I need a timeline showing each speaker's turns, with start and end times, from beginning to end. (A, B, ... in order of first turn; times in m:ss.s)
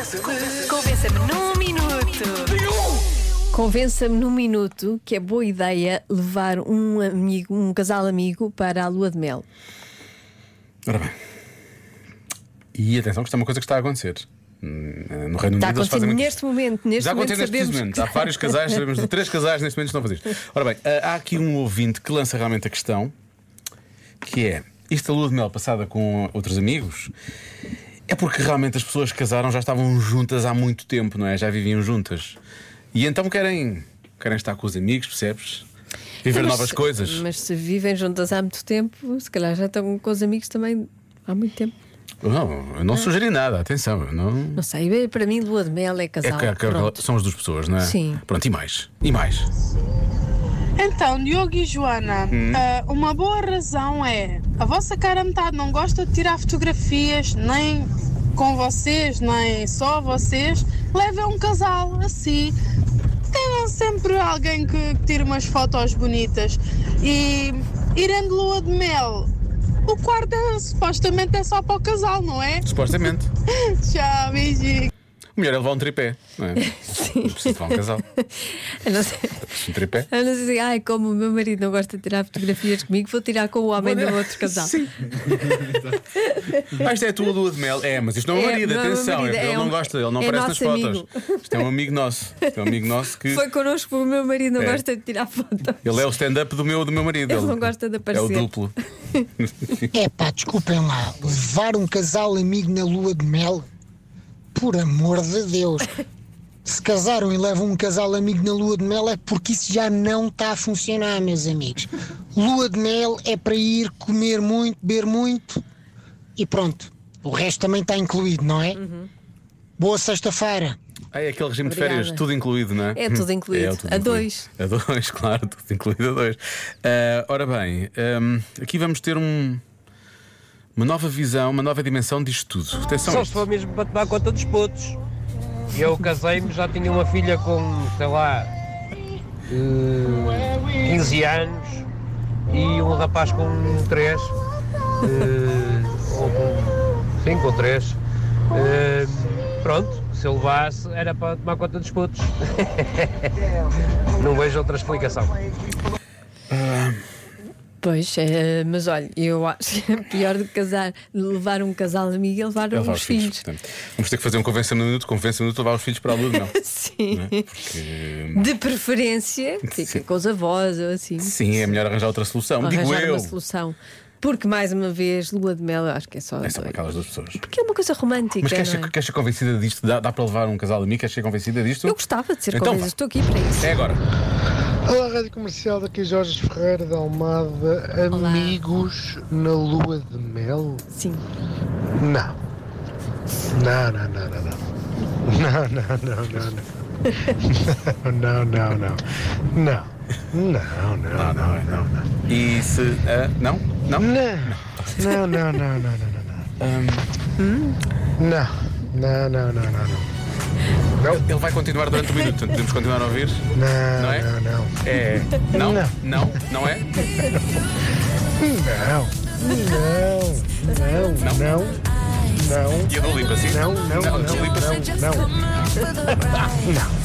0:00.3-0:02.7 A
0:03.5-0:09.5 A
0:10.9-0:11.2 B
0:12.8-0:16.4 B
0:15.6-0:19.0 A
0:17.0-0:23.1 B
0:24.2-0:27.1 B
0:28.1-0:32.4 B
0:32.9-0:35.7 B
0:36.2-0:37.2 B
0:36.3-0:41.7 A
0:42.2-0:44.6 B
0:44.6-0:47.0 A
0:46.2-0:49.5 B
0:47.8-0:48.2 A
0:50.8-1:02.6 C
0:52.3-0:52.6 B
1:03.3-1:09.3 C
1:09.8-1:12.7 C
1:12.6-1:13.3 B
1:13.5-1:14.9 C
1:15.4-1:18.0 B
1:16.6-1:24.8 A
1:19.4-1:20.1 B
1:23.8-1:33.4 B
1:25.4-1:26.6 A
1:28.3-1:31.6 A
1:32.6-1:36.0 A
1:34.6-1:34.8 B
1:35.8-1:38.7 B
1:37.3-1:39.3 A
1:39.4-1:39.9 B
1:39.9-1:43.7 D
1:44.5-1:45.9 D
1:46.6-1:55.6 D
1:56.4-1:58.8 D
1:58.8-1:59.1 A
1:59.8-2:00.8 D
2:01.1-2:09.6 B
2:01.6-2:02.3 A
2:02.9-2:04.5 A
2:10.8-2:13.4 B
2:13.1-2:15.0 E
2:15.7-2:18.5 E
2:19.5-2:21.9 E
2:22.5-2:24.3 E
2:25.0-2:28.0 E
2:28.5-2:33.3 E
2:34.2-2:35.3 E
2:36.5-2:37.0 B
2:37.8-2:43.4 A
2:42.7-2:46.5 B
2:46.3-2:47.7 A
2:47.1-2:48.5 B
2:48.4-2:51.7 A
2:49.7-2:50.0 B
2:51.2-2:53.4 B
2:52.6-2:56.8 A
2:56.4-2:57.4 B
2:57.4-2:58.9 A
2:58.4-3:02.0 B
3:01.8-3:03.8 A
3:02.5-3:02.9 B
3:03.6-3:04.0 B
3:04.8-3:10.9 F
3:08.1-3:08.6 A
3:10.9-3:11.3 A
3:12.0-3:12.4 F
3:13.5-3:14.6 F
3:15.2-3:16.7 F
3:17.4-3:22.1 F
3:21.2-3:25.0 B
3:24.0-3:26.5 F
3:26.6-3:27.1 B
3:27.4-3:27.8 A
3:28.2-3:30.1 F
3:31.0-3:31.2 F
3:31.1-3:34.3 B
3:33.5-3:34.7 F
3:34.8-3:37.1 B
3:35.5-3:36.3 F
3:38.4-3:42.9 F
3:41.2-3:41.6 B
3:42.9-3:45.3 B
3:43.4-3:45.4 F
3:45.0-3:46.7 A
3:46.0-3:46.9 F